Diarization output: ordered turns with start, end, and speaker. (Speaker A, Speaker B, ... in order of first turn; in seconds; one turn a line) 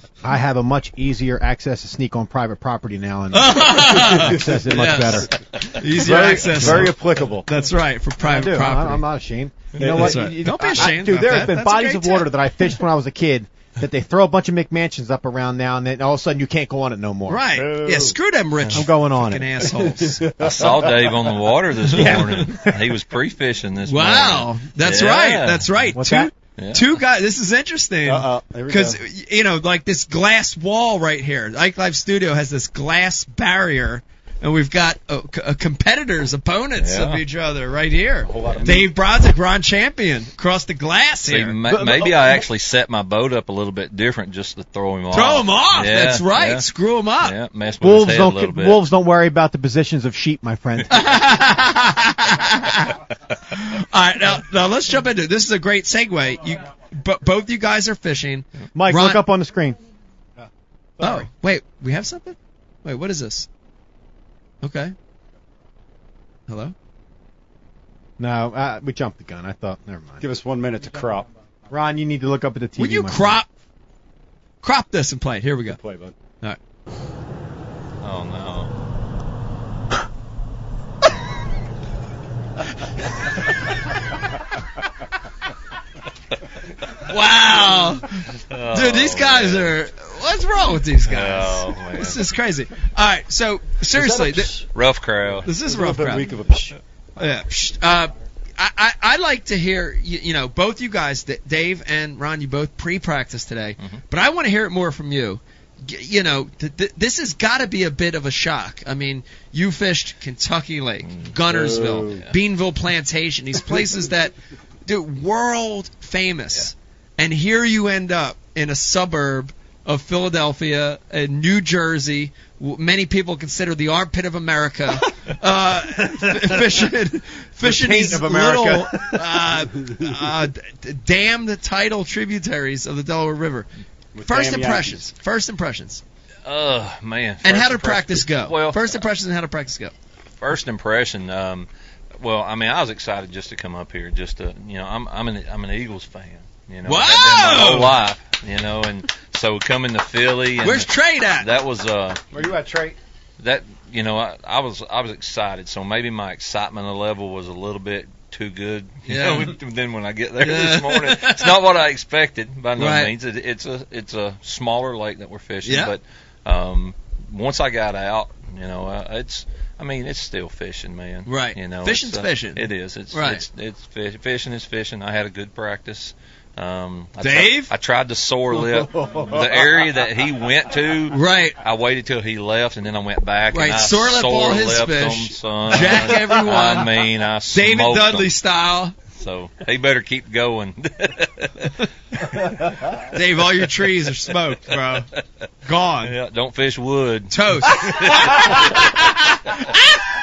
Speaker A: 0.2-5.4
Speaker B: 3.3-9.0
Speaker C: 3.9-5.0
Speaker C: 5.9-7.5
Speaker A: 8.2-17.4
Speaker C: 9.8-10.3
Speaker B: 9.8-12.3
Speaker B: 17.3-20.2
Speaker C: 17.5-18.1
Speaker A: 18.7-19.6
Speaker C: 19.6-21.3
Speaker D: 20.4-25.9
Speaker B: 21.9-22.5
Speaker B: 23.8-41.6
Speaker A: 25.9-26.3
Speaker D: 26.6-26.9
Speaker C: 28.1-29.0
Speaker D: 36.8-37.2
Speaker C: 38.2-38.9
Speaker D: 41.2-46.7
Speaker C: 41.7-42.4
Speaker B: 45.1-47.4
Speaker D: 47.2-48.8
Speaker A: 47.8-50.9
Speaker B: 50.9-59.2
Speaker A: 58.7-59.8
Speaker B: 61.0-63.5
Speaker B: 64.6-64.9
Speaker B: 66.5-66.7
Speaker A: 68.2-70.2
Speaker C: 70.2-71.3
Speaker A: 71.7-73.4
Speaker B: 72.8-73.5
Speaker B: 74.6-75.8
Speaker C: 75.7-76.1
Speaker D: 78.0-78.7
Speaker B: 87.0-94.6
Speaker D: 88.3-89.8
Speaker D: 91.0-92.2
Speaker C: 93.9-94.7
Speaker D: 94.7-96.2
Speaker B: 95.4-96.3
Speaker C: 95.6-97.3
Speaker B: 97.2-114.3
Speaker D: 111.0-111.3
Speaker C: 111.5-112.2
Speaker B: 114.8-133.7
Speaker A: 127.6-129.2
Speaker C: 134.1-135.1
Speaker B: 134.2-136.0
Speaker D: 136.4-139.0
Speaker B: 137.4-139.9
Speaker D: 140.4-141.7
Speaker D: 142.2-152.2
Speaker B: 146.8-148.0
Speaker B: 150.6-151.5
Speaker C: 152.3-153.0
Speaker D: 153.4-188.3
Speaker B: 159.1-159.5
Speaker B: 160.4-161.5
Speaker B: 162.8-163.1
Speaker B: 165.6-165.9
Speaker B: 171.2-173.4
Speaker B: 177.2-177.7
Speaker C: 178.5-180.0
Speaker B: 181.1-181.6
Speaker B: 183.5-187.0
Speaker B: 187.5-188.9
Speaker D: 189.1-191.7
Speaker B: 193.1-195.1
Speaker B: 195.7-196.1
Speaker D: 196.0-199.1
Speaker B: 197.3-198.3